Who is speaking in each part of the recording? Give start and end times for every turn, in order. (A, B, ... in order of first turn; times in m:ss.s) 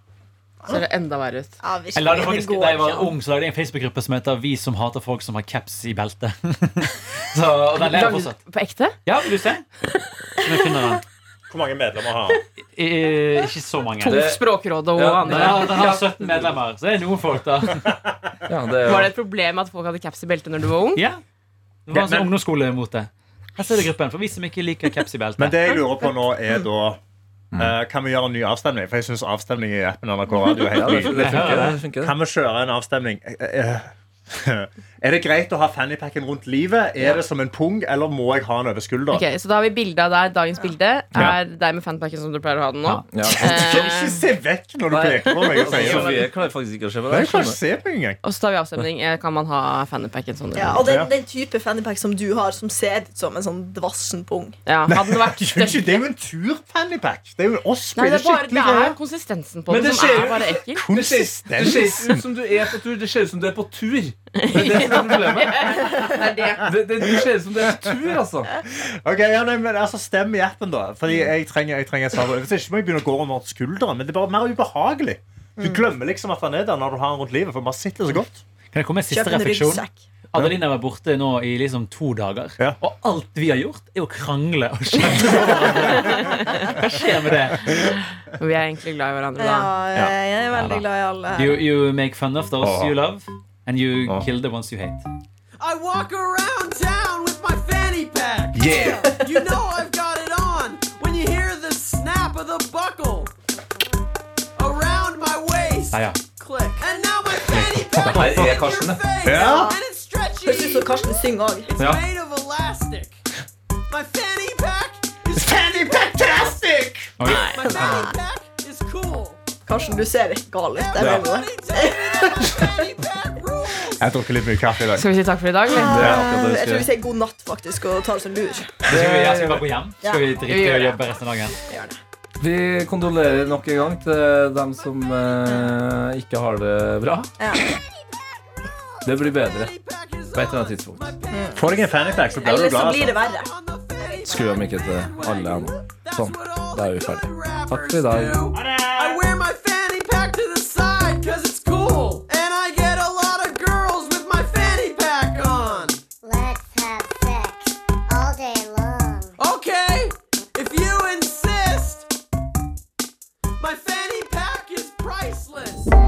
0:00.7-0:01.6 A
0:01.6-0:03.1 B
0:02.0-0:08.4 C
0:07.8-0:09.0 A
0:09.1-0:09.7 C
0:10.4-0:11.0 C
0:11.5-0:12.4 D
0:12.7-0:14.2 C
0:14.0-0:15.8 A
0:14.0-0:16.6 E
0:15.2-0:17.9 C
0:17.9-0:18.1 D
0:18.5-0:19.1 E
0:18.8-0:21.0 A
0:21.0-0:21.2 C
0:21.9-0:25.8 C
0:21.9-0:22.3 D
0:25.4-0:27.0 D
0:27.6-0:39.3 D
0:30.5-0:32.2 E
0:31.1-0:31.8 C
0:39.1-0:44.2 A
0:43.1-0:43.9 E
0:43.4-0:46.3 D
0:44.9-0:47.6 E
0:45.3-0:46.3 A
0:47.1-0:48.2 D
0:48.2-0:50.9 A
0:50.6-0:54.6 B
0:50.8-0:51.1 D
0:54.7-0:56.0 A
0:54.9-0:59.0 D
0:58.0-1:00.8 A
0:59.7-1:06.0 E
1:00.7-1:02.2 D
1:04.4-1:06.7 A
1:06.6-1:08.5 E
1:08.7-1:18.4 D
1:15.6-1:15.8 B
1:18.7-1:27.9 C
1:19.1-1:20.0 B
1:25.1-1:26.3 D
1:26.0-1:26.7 A
1:27.9-1:29.7 A
1:29.4-1:31.6 B
1:30.5-1:35.0 C
1:32.6-1:32.9 D
1:35.6-1:43.3 F
1:38.5-1:39.1 E
1:38.7-1:39.2 B
1:44.6-1:53.2 F
1:45.9-1:46.2 C
1:47.6-1:48.6 C
1:48.0-1:49.1 E
1:49.2-1:49.7 D
1:49.4-1:49.8 B
1:50.4-1:51.8 B
1:51.8-1:52.0 E
1:53.9-1:56.5 F
1:55.4-1:57.1 D
1:57.2-1:57.9 C
1:57.2-1:57.6 A
1:57.3-1:59.4 F
1:57.8-1:58.1 B
1:59.7-2:02.6 B
2:00.7-2:04.0 F
2:01.0-2:01.3 E
2:04.0-2:05.1 D
2:05.0-2:06.1 A
2:05.7-2:08.8 B
2:05.8-2:06.9 E
2:06.0-2:06.3 D
2:08.8-2:11.6 C
2:08.9-2:09.7 E
2:10.4-2:11.0 A
2:11.7-2:12.0 B
2:12.4-2:17.3 E
2:15.5-2:15.7 B
2:17.4-2:17.7 B
2:19.0-2:36.0 F
2:19.0-2:19.7 E
2:20.3-2:21.1 E
2:21.3-2:21.6 B
2:21.6-2:23.1 D
2:22.4-2:23.5 B
2:24.2-2:28.4 E
2:28.5-2:29.3 D
2:36.2-2:39.4 G
2:39.4-2:42.1 F
2:43.6-2:45.9 F